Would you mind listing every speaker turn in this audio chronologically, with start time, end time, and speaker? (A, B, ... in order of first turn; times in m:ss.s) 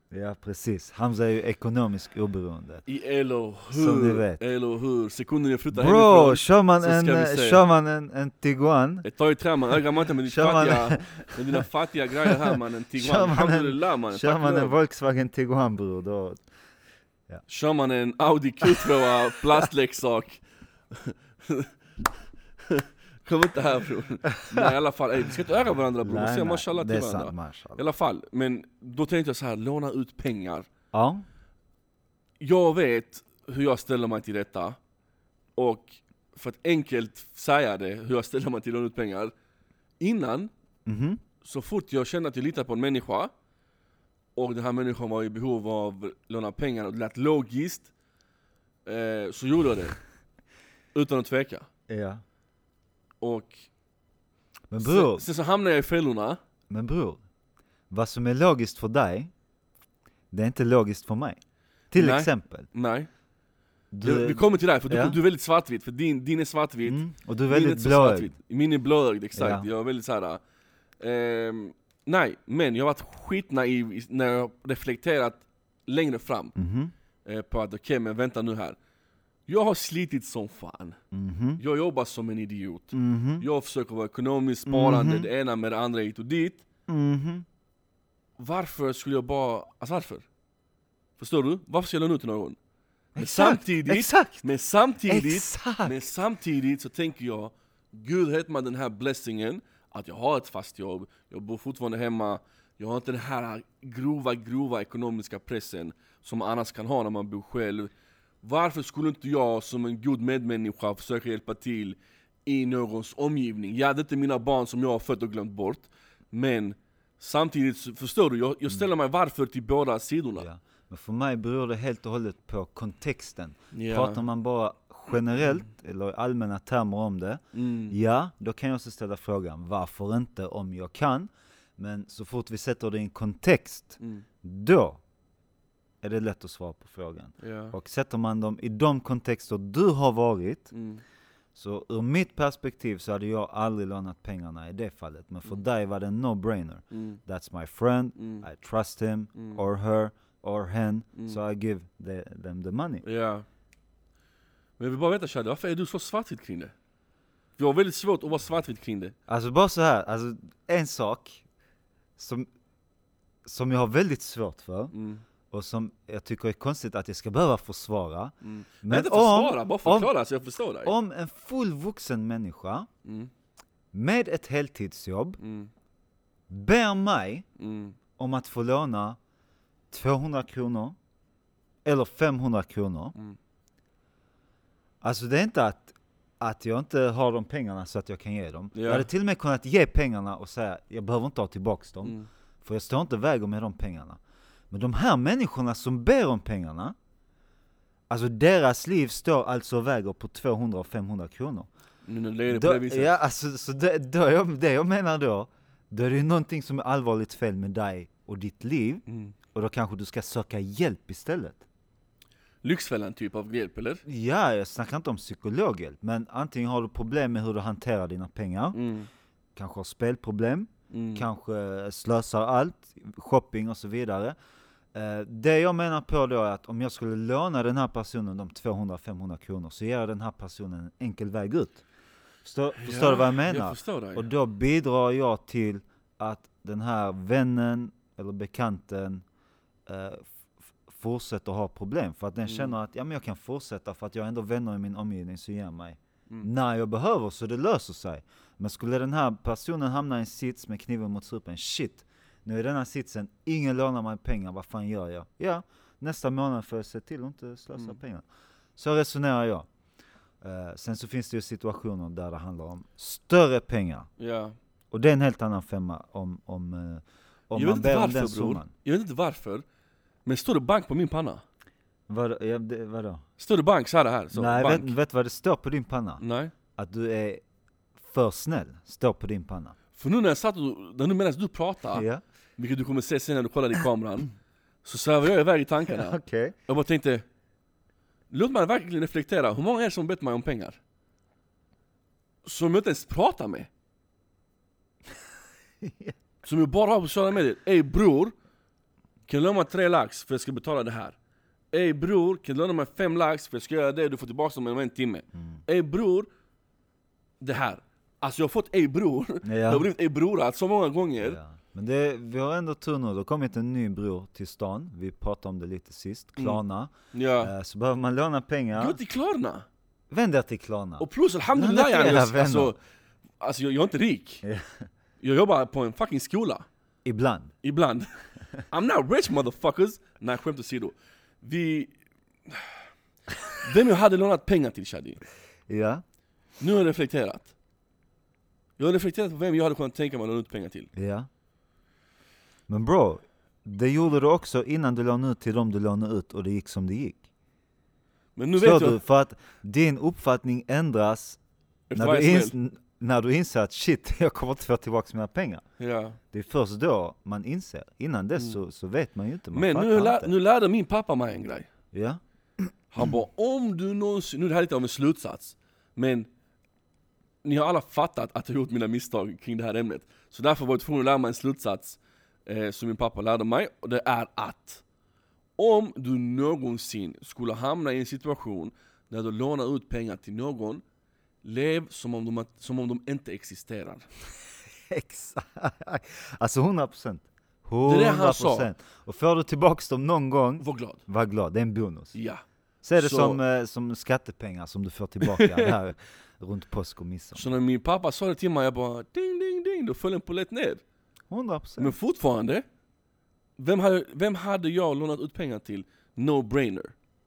0:00.1-0:02.8 A
0:02.9-0:07.6 B
0:03.7-0:04.4 A
0:05.7-0:09.1 A
0:09.0-0:14.7 B
0:10.3-0:11.6 A
0:12.3-0:16.4 A
0:17.5-0:21.7 B
0:18.7-0:19.0 A
0:22.6-0:30.7 B
0:24.4-0:24.7 A
0:26.0-0:27.8 A
0:30.9-0:31.2 A
0:32.4-0:34.8 B
0:35.6-0:39.3 B
0:40.0-0:40.5 B
0:40.9-0:41.2 A
0:41.4-0:43.3 B
0:44.4-0:47.9 B
0:48.9-0:50.0 B
0:51.0-0:51.7 B
0:51.9-0:52.2 A
0:53.2-0:53.7 B
0:54.7-0:55.3 A
0:54.8-0:56.4 B
0:56.7-0:57.2 A
0:57.9-0:59.3 A
1:00.3-1:01.4 A
1:01.9-1:02.7 A
1:02.0-1:03.1 B
1:03.9-1:05.2 A
1:04.0-1:10.4 B
1:06.9-1:08.3 A
1:09.4-1:09.7 A
1:11.0-1:16.6 B
1:16.6-1:16.9 A
1:17.2-1:18.8 B
1:19.5-1:21.0 B
1:21.1-1:21.6 A
1:21.6-1:26.6 B
1:22.9-1:23.5 A
1:24.7-1:25.3 A
1:26.9-1:27.5 A
1:28.4-1:30.3 B
1:31.2-1:32.6 B
1:33.2-1:34.5 A
1:33.2-1:47.9 B
1:35.1-1:36.0 A
1:48.4-2:00.5 B
2:00.4-2:15.0 A
2:03.7-2:04.2 B
2:07.5-2:08.0 B
2:16.0-2:20.7 A
2:17.4-2:17.8 B
2:20.7-2:21.0 B
2:21.6-2:33.0 A
2:26.9-2:27.2 B
2:28.2-2:28.5 B
2:29.4-2:29.6 B
2:33.0-2:33.4 B
2:34.8-2:36.7 B
2:37.6-2:39.1 B
2:39.3-2:41.4 A
2:42.2-2:42.5 A
2:43.4-2:44.9 A
2:44.9-2:45.2 B
2:45.5-2:50.1 A
2:48.4-2:50.9 B
2:50.8-2:52.9 A
2:53.0-2:53.3 B
2:53.9-2:55.4 A
2:55.4-2:55.7 B
2:56.5-2:57.5 A
2:57.6-2:58.0 B
2:58.2-2:59.2 A
2:59.9-3:01.0 A
3:01.8-3:03.2 A
3:05.0-3:17.0 A
3:08.7-3:09.1 B
3:18.1-3:21.7 A
3:22.1-3:23.2 B
3:22.5-3:29.0 A
3:29.1-3:29.4 B
3:29.5-3:31.6 A
3:32.6-3:34.0 B
3:34.1-3:38.8 A
3:38.7-3:39.1 B
3:39.6-3:44.4 A
3:40.9-3:41.3 B
3:44.9-3:51.8 A
3:52.4-3:59.2 A
3:52.8-3:54.3 B
3:59.9-4:00.3 A
4:00.9-4:18.2 A
4:02.5-4:02.7 B
4:18.8-4:19.7 A
4:20.4-4:24.1 A
4:24.2-4:24.6 B
4:24.9-4:28.7 A
4:27.5-4:29.6 B
4:30.3-4:31.4 B
4:32.1-4:33.2 A
4:33.4-4:34.9 B
4:34.3-4:36.2 A
4:36.2-4:36.5 B
4:36.8-4:37.4 A
4:38.0-4:39.8 A
4:40.0-4:42.1 B
4:41.9-4:42.2 A
4:42.6-4:47.3 B
4:45.9-4:46.5 A
4:48.3-4:50.8 B
4:52.4-4:53.7 B
4:55.8-4:56.2 A
4:56.4-4:58.3 B
4:59.3-5:01.2 B
5:01.7-5:06.3 B
5:07.4-5:11.4 B
5:09.4-5:09.9 A
5:11.2-5:19.0 A
5:17.1-5:17.5 B
5:18.8-5:19.7 B
5:20.1-5:22.8 A
5:21.0-5:22.8 B
5:23.4-5:24.4 B
5:24.4-5:24.8 A
5:25.2-5:26.6 B
5:27.0-5:27.5 A
5:27.6-5:28.1 B
5:28.7-5:31.9 B
5:32.5-5:32.7 B
5:33.6-5:35.2 B
5:35.7-5:36.0 A
5:36.6-5:37.5 B
5:38.8-5:40.9 B
5:41.0-5:41.3 A
5:42.7-5:47.2 A
5:48.4-5:49.0 B
5:48.6-5:51.4 A
5:51.9-5:52.5 B
5:52.0-5:55.6 A
5:55.8-5:56.2 B
5:56.3-6:00.3 A
5:59.5-6:01.7 B
6:01.9-6:02.7 A
6:02.9-6:06.3 B
6:07.4-6:14.8 B
6:15.6-6:20.8 B
6:21.4-6:24.1 B
6:24.9-6:32.2 A
6:27.8-6:28.7 B
6:30.6-6:31.0 B
6:32.1-6:32.4 B
6:32.8-6:37.5 A
6:33.0-6:33.4 B
6:35.2-6:35.7 B
6:37.4-6:40.8 B
6:41.3-6:42.0 A
6:41.8-6:42.6 B
6:43.6-6:46.9 B